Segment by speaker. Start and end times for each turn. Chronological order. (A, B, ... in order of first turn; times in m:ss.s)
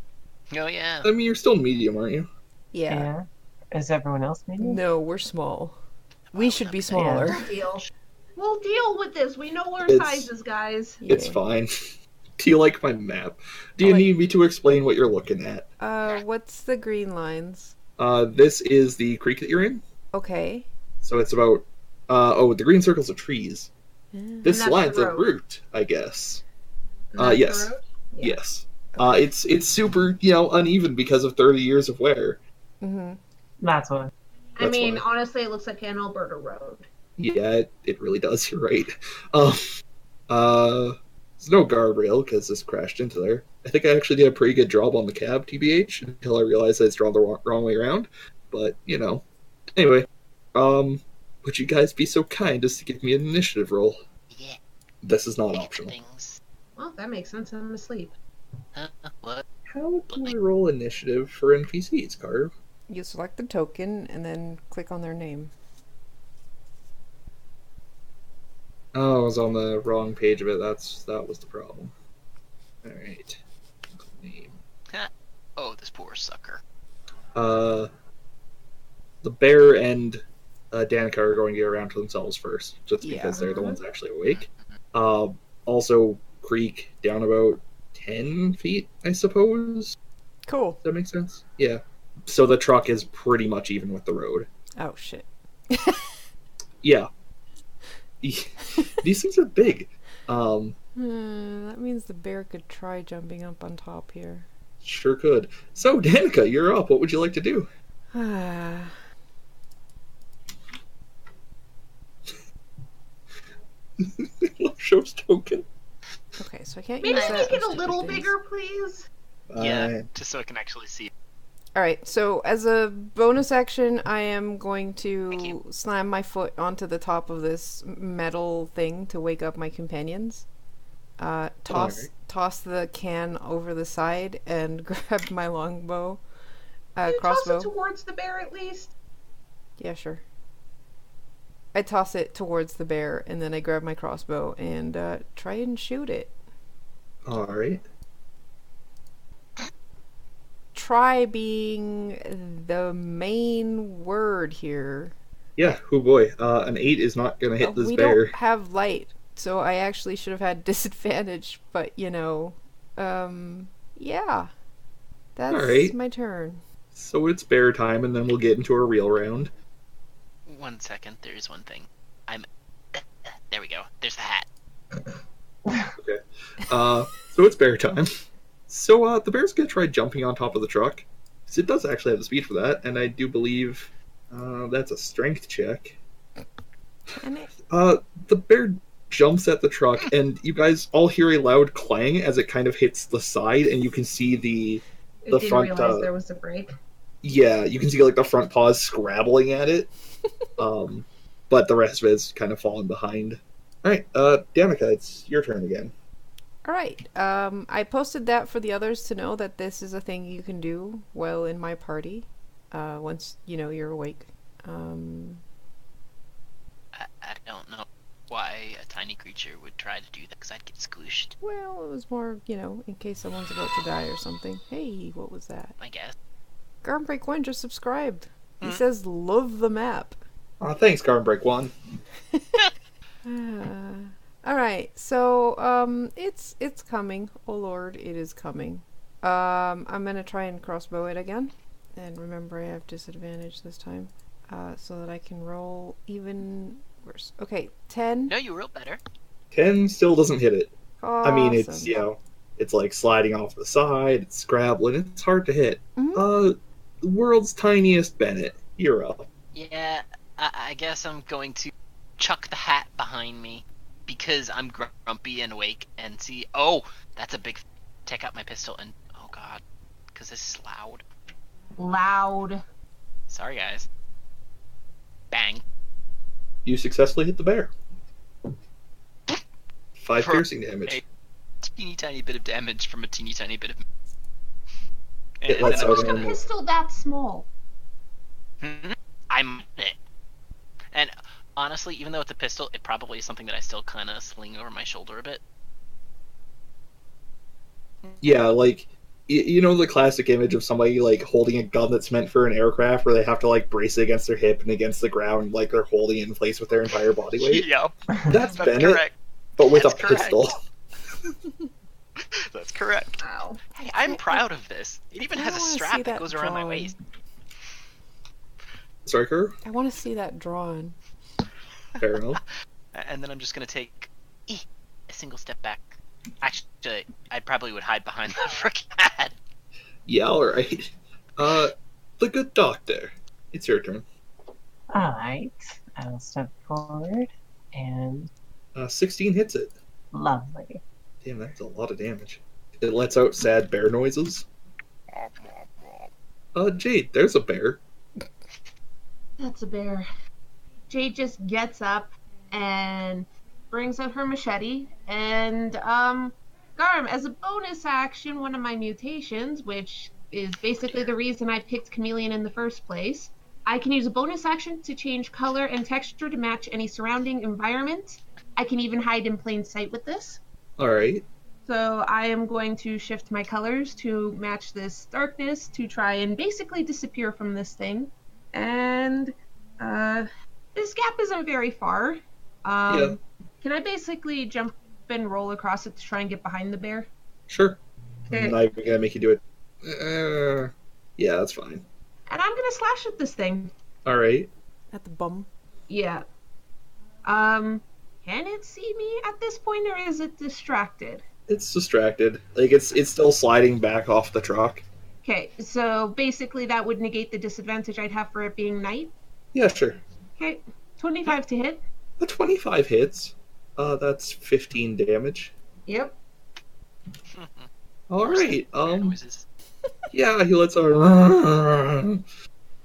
0:00.5-0:01.1 A
0:01.0-0:02.3 B
0:02.7-0:03.1 C
0:02.9-0:04.8 D
0:04.6-0:05.8 C
0:06.3-0:07.9 A
0:06.3-0:07.4 C
0:07.0-0:07.4 D
0:07.2-0:07.8 E
0:08.4-0:11.0 E
0:09.9-0:10.3 B
0:11.0-0:11.4 C
0:11.1-0:11.7 B
0:12.4-0:15.7 B
0:13.8-0:14.1 C
0:15.8-0:17.7 C
0:18.0-0:19.8 B
0:20.1-0:20.7 C
0:21.0-0:23.7 B
0:24.1-0:24.5 C
0:24.4-0:26.4 B
0:24.5-0:25.3 E
0:27.1-0:28.4 E
0:27.2-0:32.4 B
0:29.0-0:29.2 C
0:32.8-0:33.2 C
0:33.6-0:34.1 D
0:34.6-0:36.9 E
0:34.6-0:35.0 B
0:37.2-0:39.6 B
0:40.3-0:49.2 B
0:49.8-0:54.0 B
0:54.3-0:54.6 A
0:55.0-0:56.0 B
0:55.5-0:56.4 A
0:56.8-0:58.2 E
0:58.8-0:59.4 A
0:59.7-1:02.5 B
1:00.1-1:00.4 A
1:02.9-1:05.5 C
1:08.9-1:11.9 B
1:12.8-1:13.4 B
1:14.0-1:14.6 B
1:14.9-1:16.6 A
1:17.4-1:17.9 B
1:19.2-1:30.0 B
1:23.0-1:23.5 C
1:23.4-1:23.8 E
1:24.3-1:24.5 A
1:30.5-1:30.8 C
1:30.8-1:34.5 B
1:34.8-1:36.1 C
1:36.8-1:37.1 B
1:38.2-1:40.8 B
1:41.0-1:44.5 C
1:44.8-1:47.7 B
1:48.1-1:48.9 C
1:54.0-1:55.6 B
1:56.4-1:58.4 C
1:57.0-1:59.1 E
1:57.1-1:57.7 A
1:59.5-2:00.1 B
1:59.6-2:01.1 A
2:01.8-2:10.5 C
2:05.3-2:05.6 A
2:11.2-2:16.2 C
2:11.7-2:12.1 B
2:17.0-2:17.7 C
2:17.1-2:18.9 E
2:19.8-2:20.2 C
2:21.7-2:26.3 C
2:27.2-2:27.8 B
2:30.7-2:35.1 C
2:35.6-2:38.4 B
2:37.6-2:44.5 C
2:45.4-2:46.6 C
2:45.5-2:46.0 B
2:46.9-2:49.5 B
2:50.5-2:54.5 A
2:56.0-3:06.0 B
3:07.2-3:07.5 C
3:07.7-3:16.1 B
3:15.2-3:16.7 E
3:17.2-3:19.9 B
3:20.6-3:25.9 B
3:26.6-3:35.4 C
3:36.9-3:41.4 A
3:41.4-3:45.8 C
3:45.8-3:46.2 A
3:46.8-3:50.2 C
3:50.6-3:51.7 B
3:52.3-3:52.6 C
3:53.2-4:08.3 C
4:08.3-4:09.0 A
4:09.5-4:19.3 B
4:11.0-4:12.0 C
4:16.0-4:16.2 C
4:19.5-4:29.6 A
4:30.1-4:31.0 A
4:31.8-4:32.6 E
4:33.3-4:33.9 A
4:35.3-4:35.6 A
4:36.6-4:37.7 B
4:40.0-4:41.0 B
4:40.2-4:41.0 A
4:41.6-4:43.8 A
4:45.4-4:46.3 A
4:45.5-4:46.4 B
4:45.6-4:47.5 E
4:48.6-4:50.0 A
4:50.9-4:55.4 A
4:58.0-4:58.4 A
4:58.2-5:07.7 B
5:06.9-5:10.4 A
5:08.3-5:09.0 B
5:09.6-5:10.6 B
5:12.2-5:13.2 A
5:13.2-5:13.6 E
5:13.8-5:16.9 A
5:14.0-5:14.4 C
5:15.4-5:17.0 C
5:19.0-5:19.6 B
5:19.6-5:21.0 C
5:22.0-5:22.4 B
5:22.9-5:29.4 A
5:30.1-5:34.0 B
5:34.9-5:38.3 D
5:38.8-5:39.7 B
5:40.1-5:40.8 D
5:41.2-5:44.5 B
5:46.6-5:47.8 B
5:49.4-5:50.1 E
5:50.9-6:10.4 E
6:00.8-6:01.1 A
6:10.8-6:11.3 B
6:11.7-6:27.1 E
6:22.9-6:23.2 B
6:27.5-6:31.8 B
6:28.3-6:28.6 E
6:32.3-6:33.7 E
6:34.0-6:34.5 B
6:34.9-6:35.5 C
6:35.9-6:36.2 E
6:37.2-6:41.2 E
6:41.5-6:44.8 B
6:45.2-6:49.1 E
6:49.5-6:50.0 B
6:50.4-6:51.8 E
6:52.2-6:55.5 B
6:55.9-6:56.2 E
6:57.3-6:59.5 A
6:58.1-6:59.2 B
7:00.1-7:02.2 B